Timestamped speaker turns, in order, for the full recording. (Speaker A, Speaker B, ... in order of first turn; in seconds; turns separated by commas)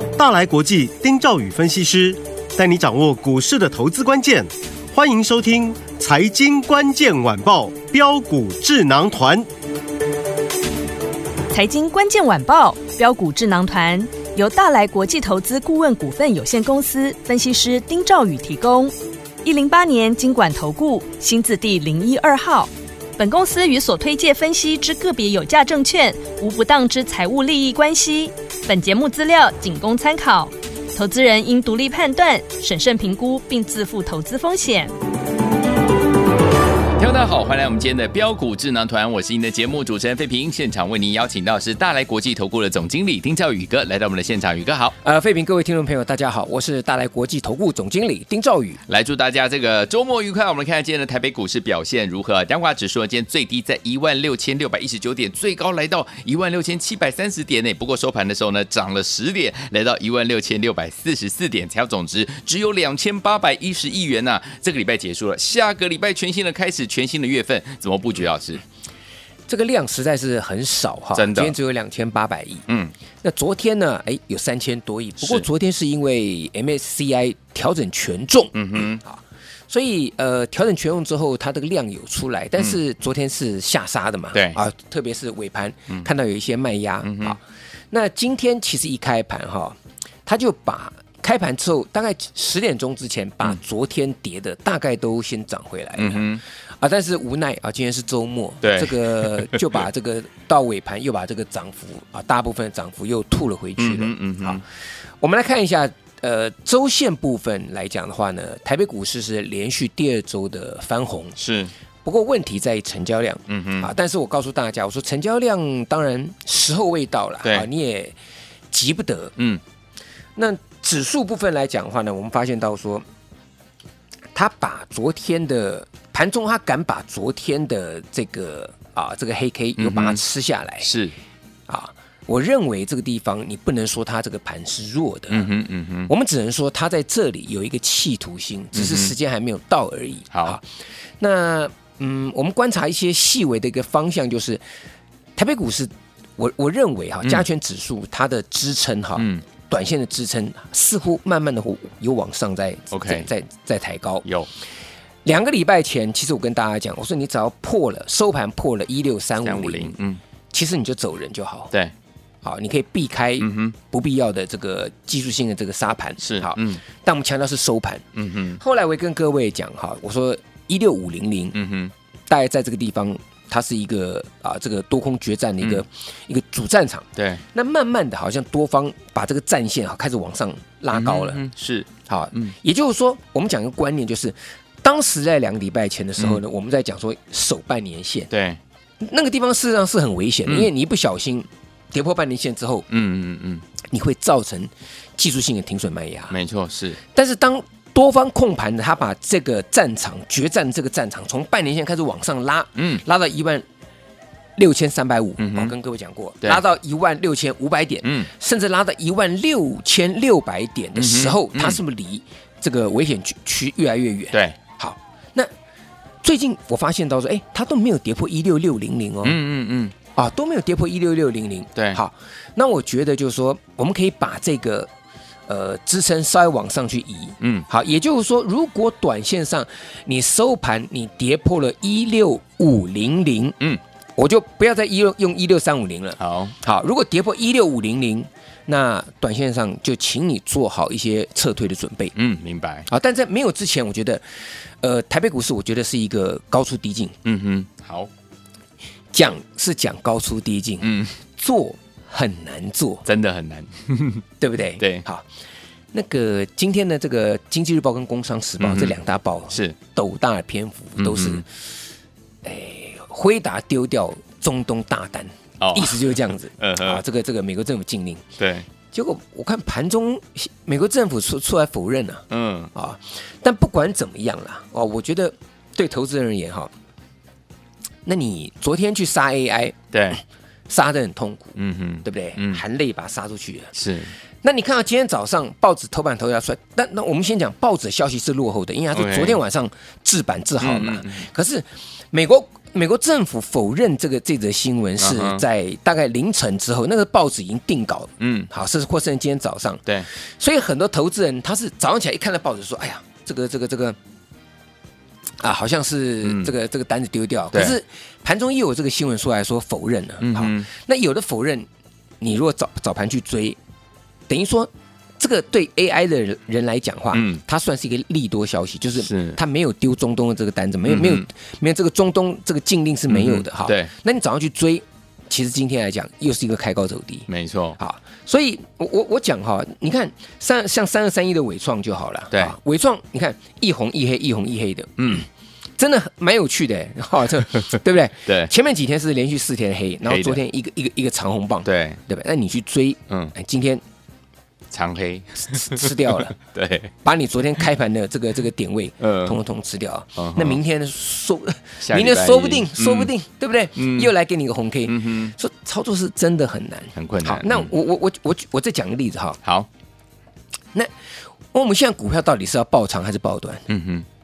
Speaker A: 0.2-9.5, Speaker B: 11.5-18.9, Speaker B: 19.4-34.9, Speaker C: 37.0-45.0, Speaker D: 45.0-48.8, Speaker C: 48.9-68.6, Speaker D: 69.5-72.7, Speaker C: 71.2-71.6, Speaker C: 72.7-72.9, Speaker D: 73.2-87.4, Speaker C: 78.5-79.0, Speaker C: 87.0-87.4, Speaker D: 87.9-96.3, Speaker C: 96.0-96.4, Speaker D: 96.8-104.6, Speaker C: 98.6-99.8, Speaker C: 103.8-104.6, Speaker D: 105.2-111.4, Speaker C: 111.4-111.7, Speaker D: 112.0-118.2, Speaker C: 113.5-113.9, Speaker D: 118.7-119.3, Speaker D: 120.4-123.0, Speaker D: 124.3-130.9, Speaker C: 129.8-130.2, Speaker C: 130.8-131.1, Speaker D: 131.7-135.5, Speaker C: 135.3-136.1, Speaker D: 136.1-140.6, Speaker C: 138.7-139.1, Speaker C: 140.3-140.6, Speaker D: 141.2-144.6, Speaker D: 145.4-154.3, Speaker C: 149.2-149.4, Speaker C: 152.9-153.3, Speaker D: 155.2-159.9, Speaker C: 159.4-160.2, Speaker D: 160.5-161.7, Speaker D: 162.4-168.1, Speaker C: 163.4-163.8, Speaker C: 166.2-166.8, Speaker C: 168.2-168.6, Speaker D: 168.6-171.6, Speaker C: 171.5-171.9, Speaker D: 172.3-181.4, Speaker C: 177.2-177.4, Speaker C: 180.9-182.6, Speaker D: 182.1-188.3, Speaker C: 188.3-188.6, Speaker D: 189.0-192.9, Speaker C: 192.9-193.6, Speaker D: 193.9-196.3, Speaker C: 196.3-197.0, Speaker D: 197.1-203.7, Speaker C: 202.8-203.0, Speaker D: 204.6-215.5, Speaker C: 205.4-205.7, Speaker C: 208.0-208.3, Speaker C: 210.9-211.8, Speaker D: 216.2-219.4, Speaker C: 219.2-219.9, Speaker D: 220.2-224.9, Speaker D: 225.5-233.6, Speaker D: 234.2-242.1, Speaker C: 236.2-236.6, Speaker C: 242.2-242.9, Speaker D: 242.9-244.2, Speaker D: 244.8-247.2, Speaker C: 247.2-248.1, Speaker D: 249.1-253.1, Speaker C: 250.8-251.1, Speaker C: 253.1-254.2, Speaker D: 254.4-255.2, Speaker C: 254.8-255.1, Speaker D: 255.9-261.4, Speaker C: 258.6-258.9, Speaker C: 259.5-259.8, Speaker C: 261.0-261.4, Speaker D: 262.4-268.2, Speaker C: 265.6-267.0, Speaker C: 268.4-268.7, Speaker D: 268.9-276.7, Speaker C: 272.3-272.7, Speaker D: 278.1-279.9, Speaker C: 279.9-280.2, Speaker D: 280.7-283.7, Speaker C: 281.6-282.6, Speaker C: 283.8-284.1, Speaker D: 284.4-304.0, Speaker C: 288.9-289.4, Speaker C: 290.6-291.2, Speaker C: 295.0-295.4, Speaker C: 298.2-298.5, Speaker D: 305.4-311.7, Speaker C: 306.2-306.5, Speaker C: 310.2-310.7, Speaker D: 312.2-313.6, Speaker D: 314.3-327.3, Speaker C: 317.1-317.4, Speaker C: 319.0-319.4, Speaker C: 320.9-321.2, Speaker C: 323.1-323.9, Speaker C: 327.3-327.8, Speaker D: 327.8-335.2, Speaker C: 335.0-335.2, Speaker D: 335.8-343.8, Speaker C: 338.3-338.5, Speaker C: 340.1-340.4, Speaker C: 341.6-342.0, Speaker C: 343.1-343.3, Speaker C: 344.7-346.9, Speaker D: 345.5-346.4, Speaker D: 347.0-359.4, Speaker C: 349.0-349.4, Speaker C: 350.2-350.6, Speaker C: 351.8-353.1, Speaker C: 353.8-354.1, Speaker C: 354.9-355.3, Speaker C: 357.0-357.7, Speaker D: 361.5-363.7, Speaker C: 363.7-364.1